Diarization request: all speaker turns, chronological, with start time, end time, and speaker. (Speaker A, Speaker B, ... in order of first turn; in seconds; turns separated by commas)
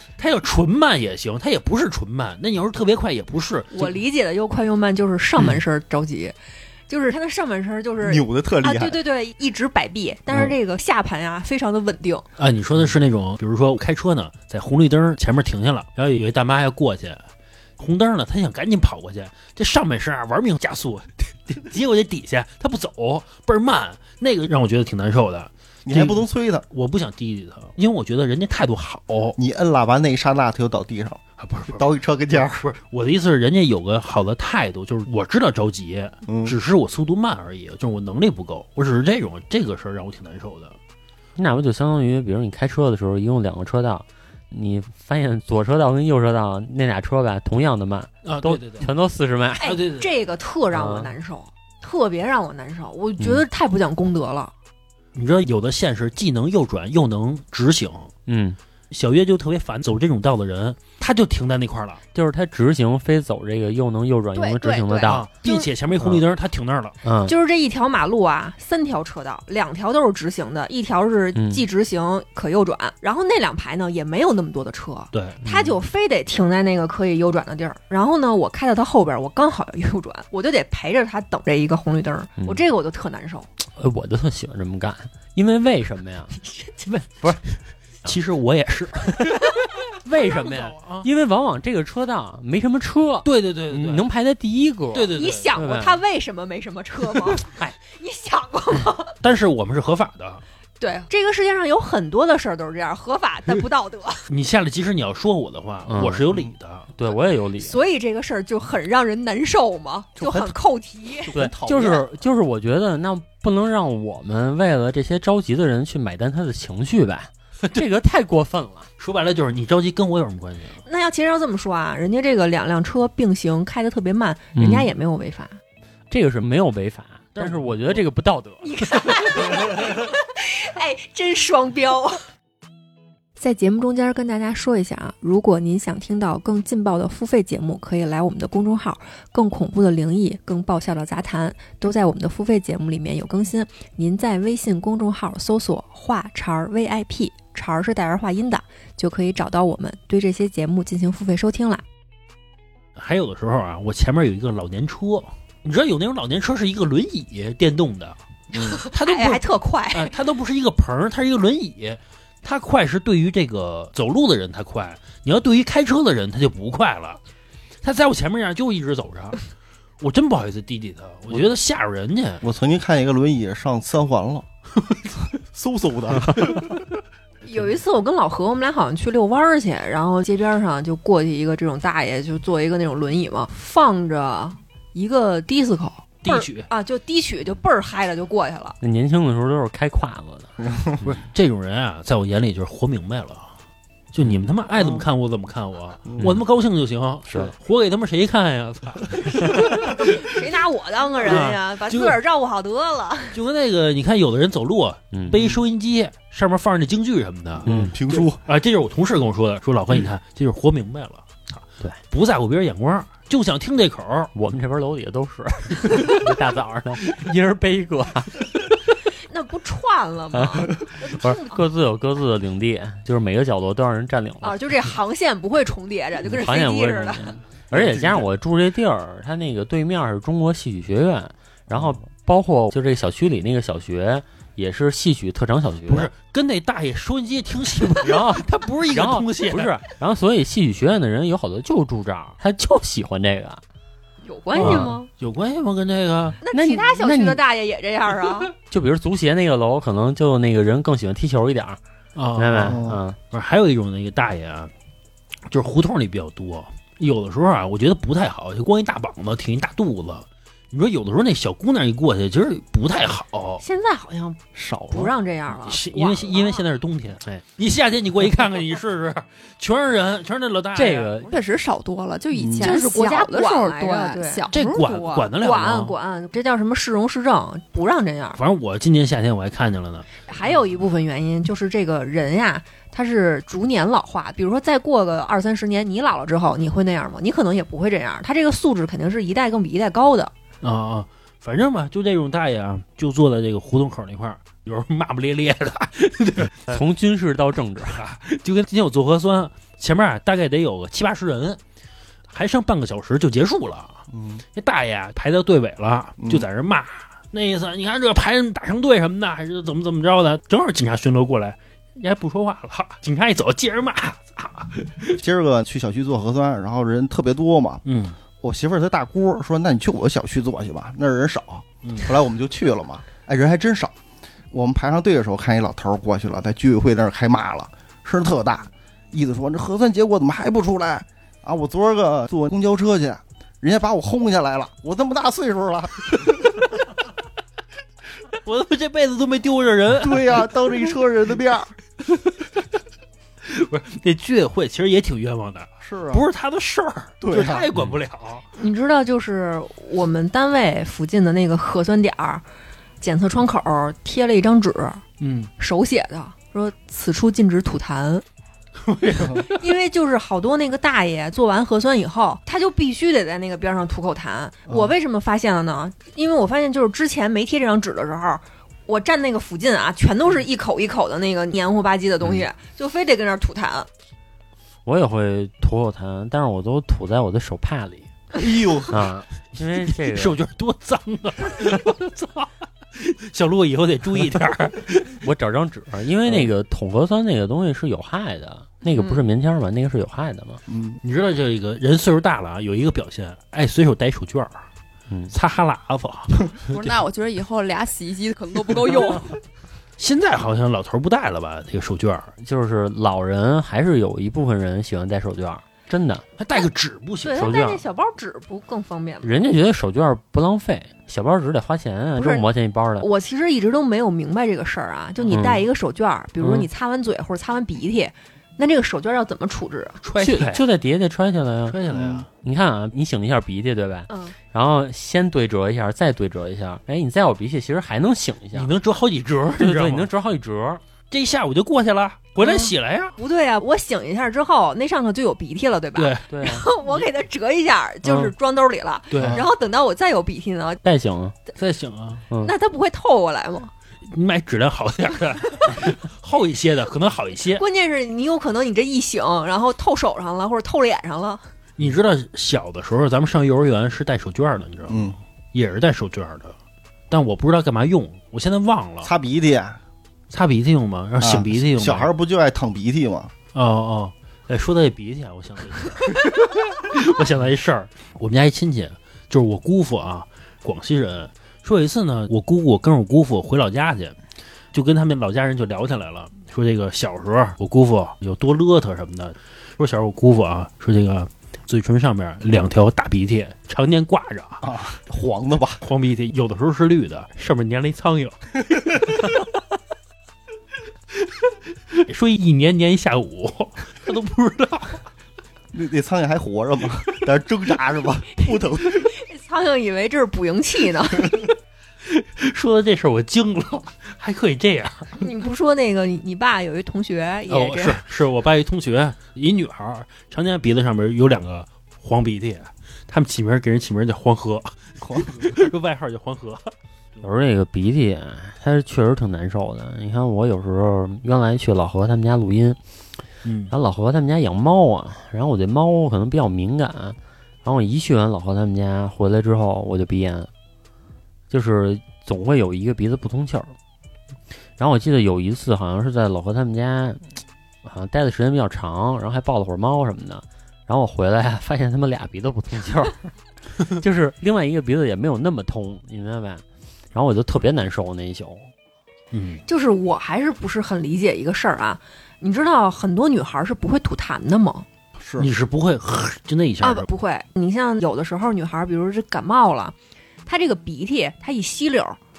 Speaker A: 0.2-4.0, Speaker B: 3.7-6.3, Speaker B: 6.9-12.2, Speaker C: 8.0-9.0, Speaker A: 12.4-17.2, Speaker A: 17.8-29.4, Speaker C: 25.9-26.6, Speaker C: 29.4-32.7, Speaker A: 31.4-40.8, Speaker C: 36.2-36.5, Speaker D: 41.4-49.8, Speaker A: 48.2-48.9, Speaker B: 49.6-54.5, Speaker A: 49.6-50.1, Speaker D: 50.7-51.1, Speaker D: 53.2-53.4, Speaker A: 55.1-58.1, Speaker D: 58.3-58.6, Speaker A: 58.9-62.0, Speaker D: 62.1-65.3, Speaker B: 64.3-65.7, Speaker A: 65.1-67.0, Speaker D: 67.0-67.3, Speaker B: 67.2-83.5, Speaker D: 71.3-71.6, Speaker A: 75.1-75.4, Speaker D: 75.4-75.7, Speaker D: 82.4-82.6, Speaker D: 83.7-86.3, Speaker B: 86.4-86.9, Speaker D: 86.9-87.4, Speaker A: 88.0-89.4, Speaker D: 90.0-96.0, Speaker A: 90.2-91.1, Speaker A: 93.2-94.0, Speaker A: 94.9-95.5, Speaker B: 95.1-99.1, Speaker D: 97.3-97.7, Speaker A: 99.2-100.4, Speaker B: 100.8-104.2, Speaker A: 104.3-106.9, Speaker D: 105.9-106.3, Speaker D: 106.9-107.8, Speaker B: 107.6-111.3, Speaker C: 110.2-110.6, Speaker C: 111.2-112.1, Speaker D: 111.3-118.9, Speaker A: 119.0-120.8, Speaker B: 120.9-125.6, Speaker D: 124.5-124.9, Speaker D: 126.1-129.6, Speaker A: 127.3-128.0, Speaker B: 128.6-132.2, Speaker B: 133.4-151.8, Speaker A: 152.9-158.2, Speaker A: 158.8-167.2, Speaker B: 158.8-160.1, Speaker A: 167.8-169.4, Speaker A: 170.0-172.4, Speaker C: 172.4-174.5, Speaker C: 175.5-176.8, Speaker B: 177.4-188.8, Speaker A: 186.2-186.7, Speaker D: 188.8-191.1, Speaker A: 191.0-193.5, Speaker A: 194.1-200.2, Speaker C: 196.1-196.3, Speaker B: 199.9-203.4, Speaker A: 201.2-202.2, Speaker A: 203.3-214.3, Speaker D: 205.1-205.4, Speaker C: 207.6-208.4, Speaker D: 207.7-207.9, Speaker D: 214.3-219.0, Speaker B: 219.3-221.6, Speaker D: 220.3-224.6, Speaker B: 224.4-227.4, Speaker D: 226.2-236.1, Speaker C: 227.7-228.2, Speaker A: 235.9-239.8, Speaker D: 237.9-243.6, Speaker B: 244.2-245.1, Speaker D: 244.6-244.9, Speaker A: 244.6-246.4, Speaker B: 246.4-248.5, Speaker D: 246.5-247.4, Speaker D: 248.7-251.8, Speaker A: 252.1-254.7, Speaker D: 252.4-253.2, Speaker C: 252.6-253.0, Speaker A: 255.5-263.6, Speaker B: 263.6-266.6, Speaker C: 264.5-265.1, Speaker A: 265.6-271.3, Speaker D: 270.7-271.4, Speaker E: 271.2-274.6, Speaker C: 272.3-272.7, Speaker B: 272.6-278.4, Speaker A: 274.5-275.9, Speaker A: 278.4-280.1, Speaker B: 280.3-290.3, Speaker A: 290.6-296.8, Speaker D: 296.7-298.0, Speaker A: 297.9-301.6, Speaker A: 302.3-304.0, Speaker C: 304.1-304.4, Speaker A: 304.6-315.2, Speaker C: 306.2-306.5, Speaker C: 315.1-317.8, Speaker A: 317.8-318.2, Speaker C: 318.4-323.9, Speaker A: 321.8-322.1, Speaker C: 324.5-336.6, Speaker A: 338.4-340.5, Speaker C: 340.0-341.7, Speaker A: 342.1-342.5, Speaker A: 343.4-348.4, Speaker C: 345.8-346.2, Speaker C: 347.2-347.7, Speaker B: 348.6-352.4, Speaker B: 353.0-355.0, Speaker A: 355.2-355.5, Speaker B: 355.6-358.2, Speaker A: 358.8-359.6, Speaker B: 359.4-373.9, Speaker D: 374.8-378.1, Speaker C: 378.3-379.1, Speaker D: 378.9-380.4, Speaker A: 379.8-385.2, Speaker D: 385.1-390.6, Speaker B: 388.9-389.2, Speaker C: 390.7-391.0, Speaker A: 391.0-394.6, Speaker A: 395.3-396.8, Speaker E: 396.6-399.4, Speaker A: 400.0-402.3, Speaker D: 402.4-406.2, Speaker A: 406.4-407.5, Speaker B: 407.2-409.3, Speaker D: 407.3-407.8, Speaker D: 409.2-413.1, Speaker B: 412.1-412.5, Speaker B: 413.0-420.0, Speaker D: 415.3-415.6, Speaker D: 416.4-416.7, Speaker A: 420.0-420.6, Speaker D: 420.2-421.8, Speaker A: 421.7-422.3, Speaker C: 421.9-422.2, Speaker D: 422.4-428.7, Speaker B: 424.1-424.4, Speaker A: 428.5-430.1, Speaker D: 429.6-430.8, Speaker A: 431.1-433.1, Speaker B: 432.4-440.8, Speaker A: 435.9-436.3, Speaker D: 436.3-436.7, Speaker D: 438.0-438.3, Speaker A: 439.1-439.4, Speaker D: 440.8-441.3, Speaker A: 441.6-442.2, Speaker B: 442.4-443.7, Speaker A: 444.1-447.6, Speaker B: 447.6-451.4, Speaker A: 451.8-456.6, Speaker C: 454.9-455.2, Speaker A: 457.1-459.1, Speaker C: 459.0-459.8, Speaker A: 460.3-462.1, Speaker C: 461.2-463.3, Speaker A: 463.5-474.2, Speaker A: 474.7-484.6, Speaker C: 484.6-485.8, Speaker A: 485.8-489.4, Speaker A: 491.2-495.0, Speaker C: 495.7-499.1, Speaker B: 499.1-501.5, Speaker A: 502.0-505.2, Speaker B: 505.2-508.0, Speaker A: 507.5-516.7, Speaker C: 515.0-515.5, Speaker D: 517.2-522.8, Speaker A: 523.4-523.7, Speaker D: 523.7-530.5, Speaker D: 531.5-533.7, Speaker D: 534.8-537.2, Speaker D: 537.8-543.3, Speaker D: 543.8-548.7, Speaker A: 549.3-549.6, Speaker B: 549.7-554.9, Speaker C: 555.2-555.5, Speaker A: 555.4-557.1, Speaker B: 556.8-562.2